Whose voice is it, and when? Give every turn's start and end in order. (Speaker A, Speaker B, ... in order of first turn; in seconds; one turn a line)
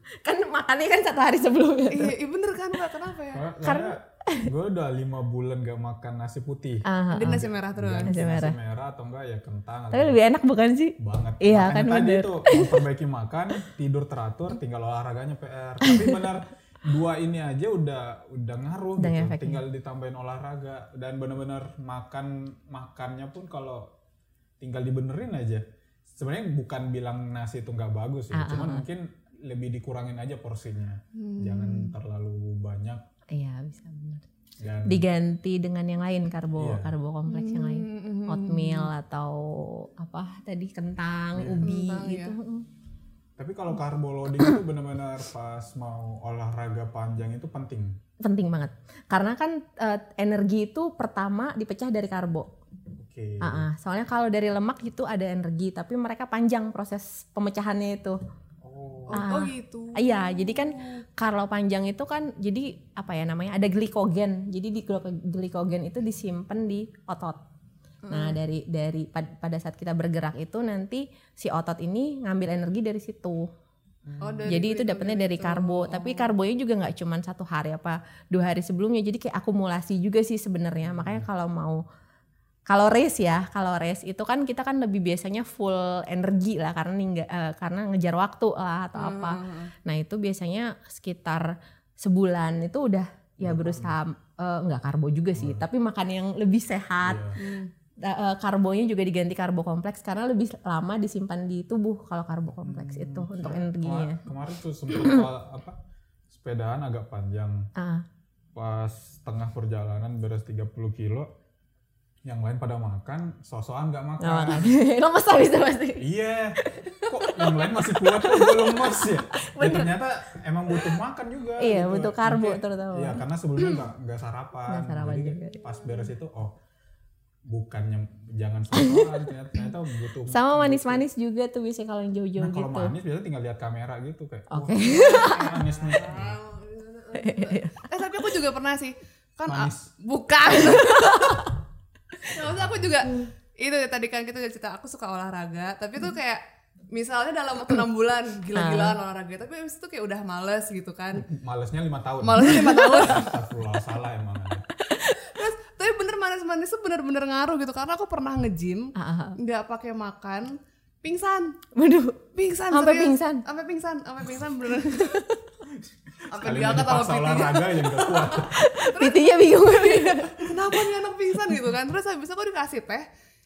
Speaker A: 0.2-2.1
Speaker B: 1.9-3.4
Speaker C: 3.3-10.2
Speaker A: 3.6-4.5
Speaker A: 6.8-7.5
Speaker B: 7.1-8.2
Speaker A: 8.1-8.6
Speaker A: 9.9-12.8
Speaker C: 11.0-23.9
Speaker A: 15.8-16.1
Speaker A: 19.0-19.6
Speaker C: 24.6-33.0
Speaker A: 28.3-28.9
Speaker B: 31.1-31.9
Speaker A: 33.3-34.2
Speaker C: 34.6-35.0
Speaker A: 34.9-42.6
Speaker C: 36.6-37.0
Speaker B: 37.3-38.9
Speaker C: 41.4-41.7
Speaker B: 41.6-42.4
Speaker C: 43.4-48.0
Speaker A: 48.2-52.5
Speaker C: 53.0-53.7
Speaker A: 53.4-58.2
Speaker C: 58.6-59.2
Speaker B: 59.1-61.0
Speaker A: 59.1-67.4
Speaker B: 68.0-68.4
Speaker A: 68.1-73.5
Speaker C: 74.1-74.6
Speaker B: 74.2-76.3
Speaker A: 74.5-81.8
Speaker C: 80.8-81.3
Speaker A: 82.7-97.4
Speaker B: 89.0-89.7
Speaker C: 93.4-94.0
Speaker C: 95.4-95.6
Speaker C: 97.0-97.4
Speaker B: 97.4-97.7
Speaker A: 98.0-104.2
Speaker C: 102.6-105.8
Speaker A: 105.0-105.2
Speaker C: 106.3-107.7
Speaker A: 107.8-108.0
Speaker C: 108.5-111.3
Speaker C: 112.2-114.8
Speaker A: 114.2-116.1
Speaker C: 116.0-126.5
Speaker A: 116.6-119.9
Speaker A: 121.6-123.8
Speaker A: 124.7-125.6
Speaker B: 125.7-126.0
Speaker C: 127.5-131.1
Speaker A: 128.7-129.3
Speaker A: 130.3-132.9
Speaker C: 132.4-136.4
Speaker A: 134.5-135.6
Speaker B: 134.8-141.5
Speaker A: 137.1-137.7
Speaker C: 139.4-139.9
Speaker A: 140.5-141.5
Speaker B: 142.3-151.2
Speaker C: 142.4-143.0
Speaker A: 148.6-148.9
Speaker C: 151.1-154.7
Speaker B: 152.2-153.3
Speaker A: 152.4-153.0
Speaker A: 154.8-155.2
Speaker B: 155.1-161.6
Speaker A: 158.9-159.4
Speaker A: 161.8-162.2
Speaker B: 162.3-165.3
Speaker A: 162.7-163.4
Speaker A: 164.8-165.3
Speaker C: 165.7-168.5
Speaker B: 166.3-173.1
Speaker A: 168.2-170.5